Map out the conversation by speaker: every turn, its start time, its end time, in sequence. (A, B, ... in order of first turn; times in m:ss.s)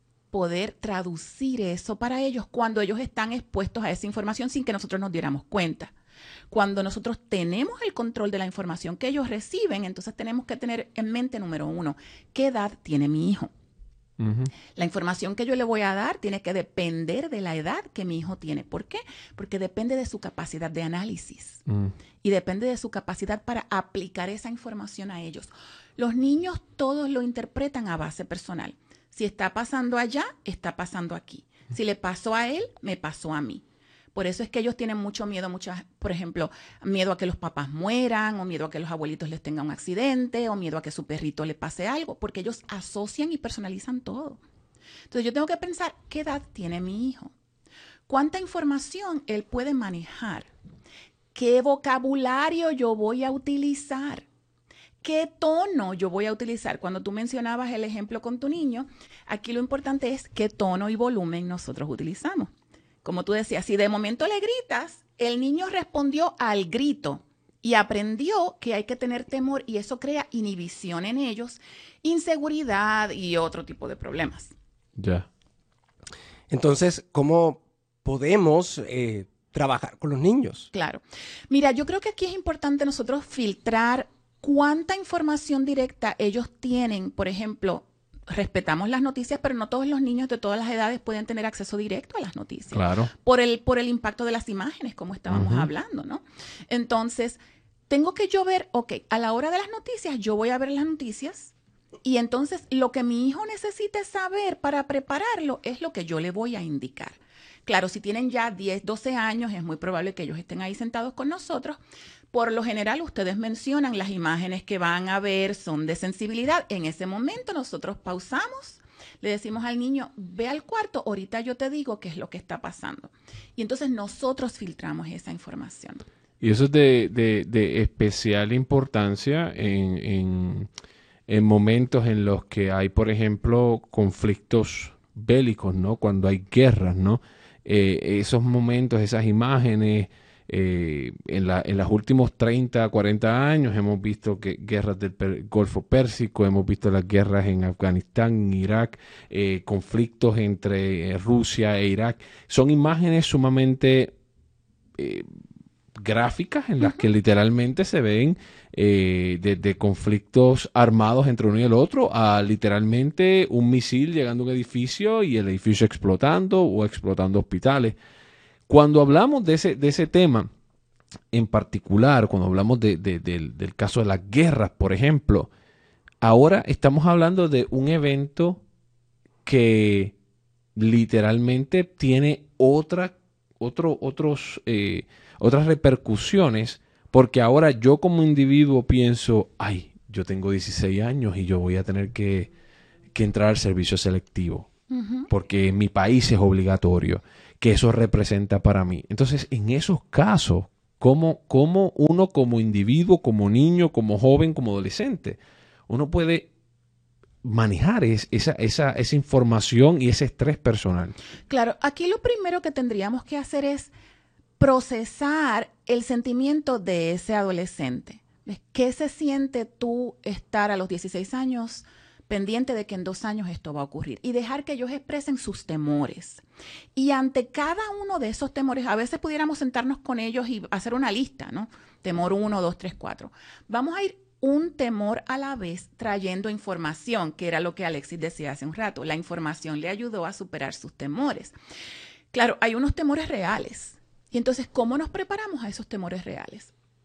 0:00.3-0:05.9 A
0:06.5-0:13.5 A
0:14.2-0:14.5 B
0:14.8-0:21.6 A
0:21.7-0:21.9 B
0:22.2-0:33.6 A
0:34.1-0:44.4 A
0:45.1-0:47.3 A
0:48.1-0:50.5 A
0:51.3-0:54.2 A
0:55.0-1:02.5 A
1:03.0-1:14.5 A
1:15.0-1:15.3 B
1:16.5-1:20.7 C
1:20.7-1:41.5 A
1:32.7-1:33.1 B
1:35.3-1:35.7 B
1:42.0-1:51.8 A
1:52.3-2:06.0 A
2:06.4-2:10.7 B
2:11.3-2:34.1 B
2:35.0-2:35.3 B
2:35.9-2:48.0 B
2:48.7-2:50.5 B
2:51.3-2:55.5 B
2:56.2-2:58.6 B
2:59.4-3:00.1 B
3:00.8-3:12.5 B
3:13.1-3:14.7 B
3:14.9-3:15.3 A
3:15.3-3:25.4 B
3:25.9-3:26.5 B
3:27.4-3:31.1 B
3:31.5-3:33.9 A
3:34.6-3:46.4 A
3:47.0-4:01.5 A
4:02.3-4:06.7 A